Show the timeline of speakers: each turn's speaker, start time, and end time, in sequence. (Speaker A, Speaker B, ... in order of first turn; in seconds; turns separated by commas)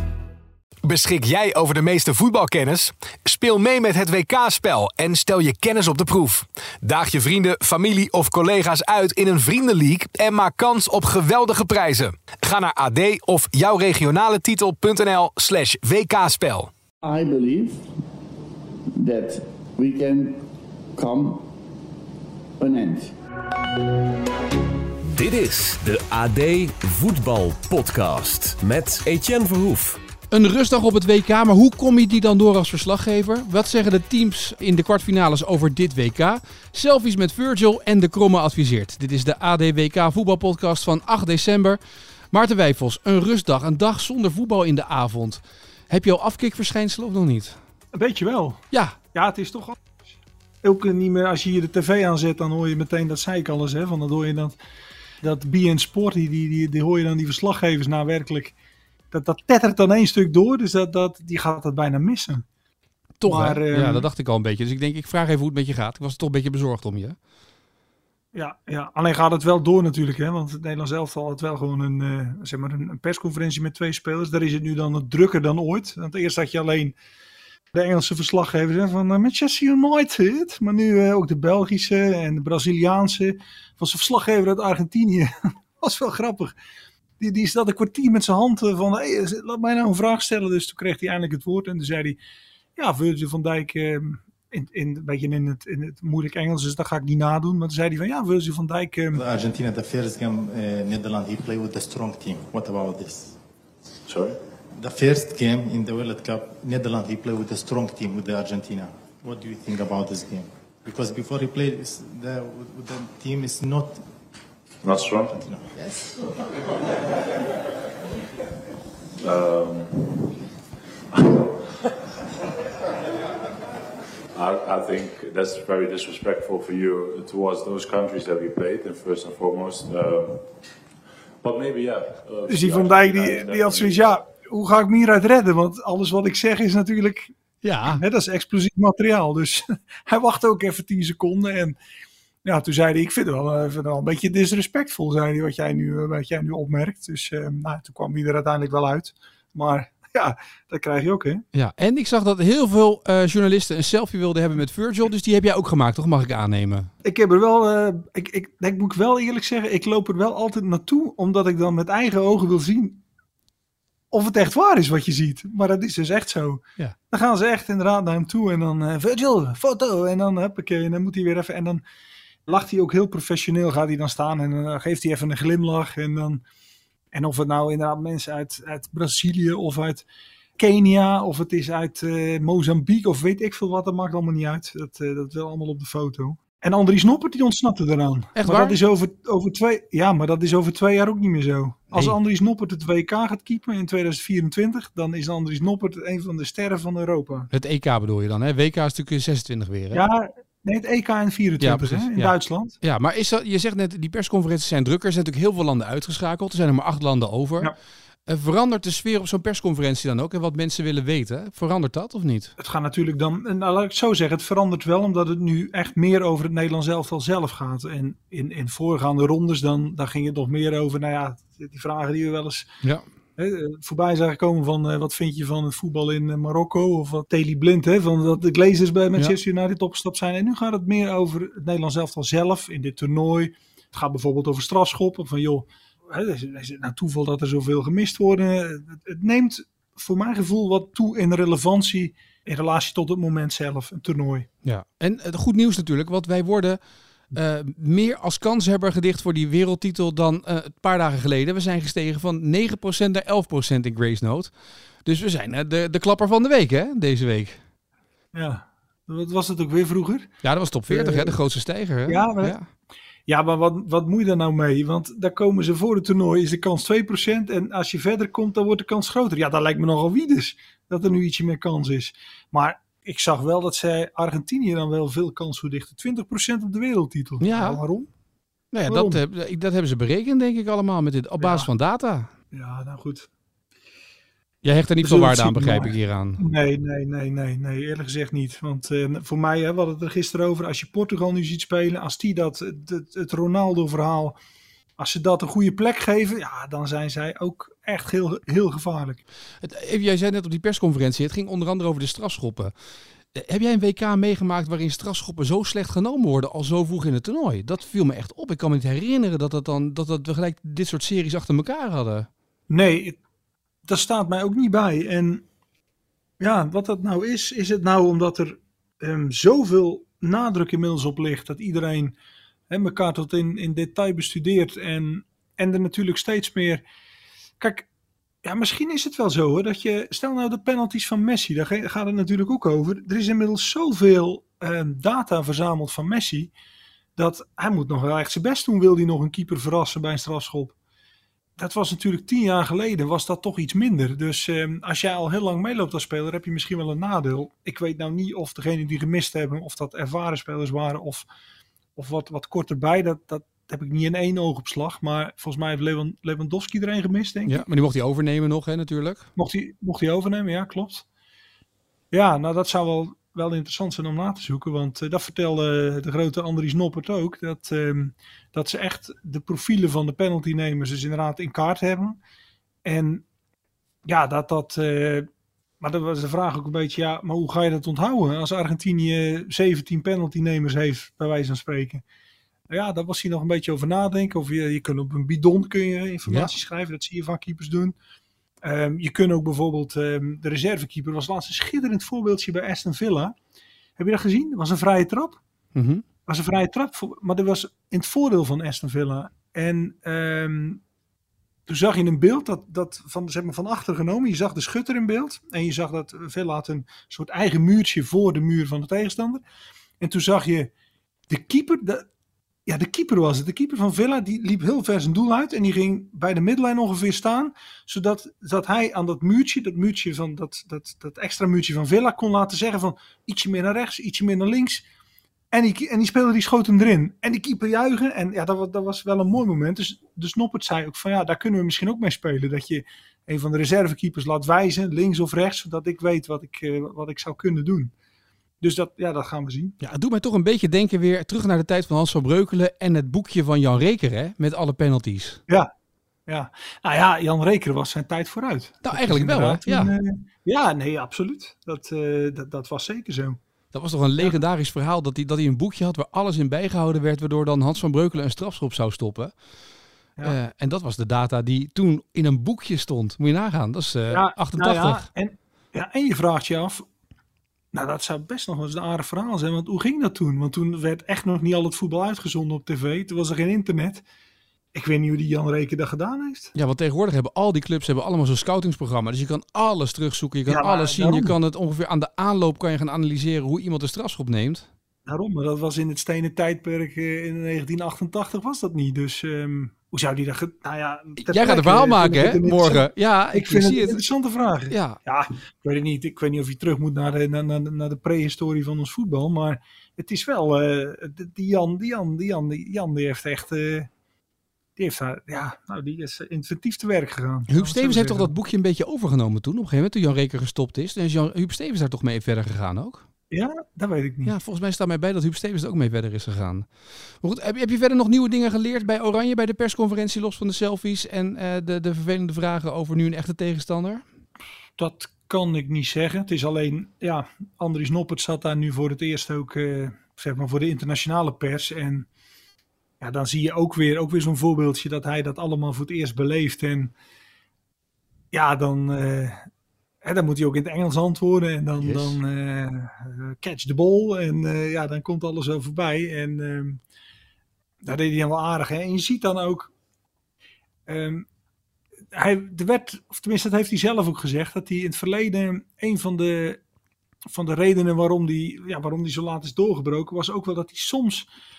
Speaker A: 0.8-16.7, Speaker B: 17.0-17.9, Speaker B: 19.0-20.4, Speaker B: 20.9-21.4, Speaker B: 22.6-23.1, Speaker C: 25.1-30.0, Speaker D: 30.3-41.8, Speaker D: 42.3-47.6, Speaker E: 47.9-49.8, Speaker E: 50.6-54.6, Speaker E: 55.2-58.5, Speaker E: 59.1-62.4, Speaker D: 63.2-67.2, Speaker E: 63.2-64.0, Speaker E: 68.3-77.0, Speaker E: 77.7-86.5, Speaker E: 87.2-92.2, Speaker E: 92.8-99.2, Speaker F: 99.1-103.4, Speaker G: 104.0-104.4, Speaker F: 104.8-114.0, Speaker G: 114.8-115.3, Speaker F: 115.3-115.7, Speaker G: 119.2-120.3, Speaker G: 121.1-121.6, Speaker G: 124.3-130.4, Speaker G: 131.4-134.2, Speaker E: 132.5-137.3, Speaker D: 137.6-138.0, Speaker E: 137.8-141.8, Speaker E: 142.4-151.4, Speaker D: 151.5-156.9, Speaker E: 157.0-163.0, Speaker E: 164.1-171.8, Speaker E: 172.5-176.4, Speaker E: 177.1-180.0, Speaker E: 180.6-197.5, Speaker D: 188.3-188.8, Speaker D: 197.5-200.0, Speaker E: 199.9-202.7, Speaker D: 201.6-207.7, Speaker D: 208.3-212.5, Speaker E: 212.6-222.7, Speaker E: 223.4-244.5, Speaker D: 244.6-257.6, Speaker E: 258.3-260.3, Speaker D: 260.4-262.7, Speaker E: 260.9-261.4, Speaker E: 262.1-262.5, Speaker E: 263.3-278.1, Speaker D: 277.4-277.8, Speaker D: 278.7-282.3, Speaker E: 278.9-279.2, Speaker E: 281.4-281.7, Speaker E: 282.5-283.3, Speaker D: 284.6-286.4, Speaker E: 285.0-294.4, Speaker E: 295.0-299.2, Speaker D: 299.6-302.7, Speaker D: 303.3-312.3, Speaker E: 312.7-313.2, Speaker E: 313.9-315.4, Speaker E: 316.4-322.1, Speaker E: 322.7-326.8, Speaker E: 327.6-327.9, Speaker E: 328.4-336.5, Speaker E: 337.2-340.7, Speaker E: 341.6-351.3, Speaker E: 351.9-357.6, Speaker D: 357.5-359.3, Speaker E: 359.4-361.0, Speaker E: 362.1-372.2, Speaker E: 372.8-373.2, Speaker E: 374.1-375.3, Speaker E: 375.8-382.0, Speaker E: 382.7-387.9, Speaker E: 388.6-393.3, Speaker E: 394.0-395.4, Speaker D: 395.7-396.0, Speaker E: 396.2-400.8, Speaker E: 401.7-409.4, Speaker E: 410.0-410.7, Speaker E: 411.3-412.1, Speaker E: 412.6-424.8, Speaker E: 425.5-437.9, Speaker E: 438.6-439.8, Speaker D: 439.8-445.4, Speaker E: 446.3-453.4, Speaker D: 448.8-449.9, Speaker D: 453.7-459.4, Speaker D: 460.2-465.1, Speaker E: 464.1-466.8, Speaker E: 467.7-474.0, Speaker E: 474.7-476.5, Speaker D: 476.5-484.7, Speaker E: 480.5-481.3, Speaker E: 485.1-503.9, Speaker D: 491.2-494.0, Speaker D: 494.7-495.0, Speaker E: 504.8-508.3, Speaker D: 507.5-513.0, Speaker E: 513.3-514.3, Speaker D: 514.2-524.0, Speaker E: 524.8-532.1, Speaker E: 533.0-536.9, Speaker E: 538.3-539.5, Speaker E: 540.0-546.8, Speaker D: 541.8-542.2, Speaker E: 547.8-549.7, Speaker E: 550.9-551.2, Speaker E: 552.1-556.6, Speaker E: 557.3-561.3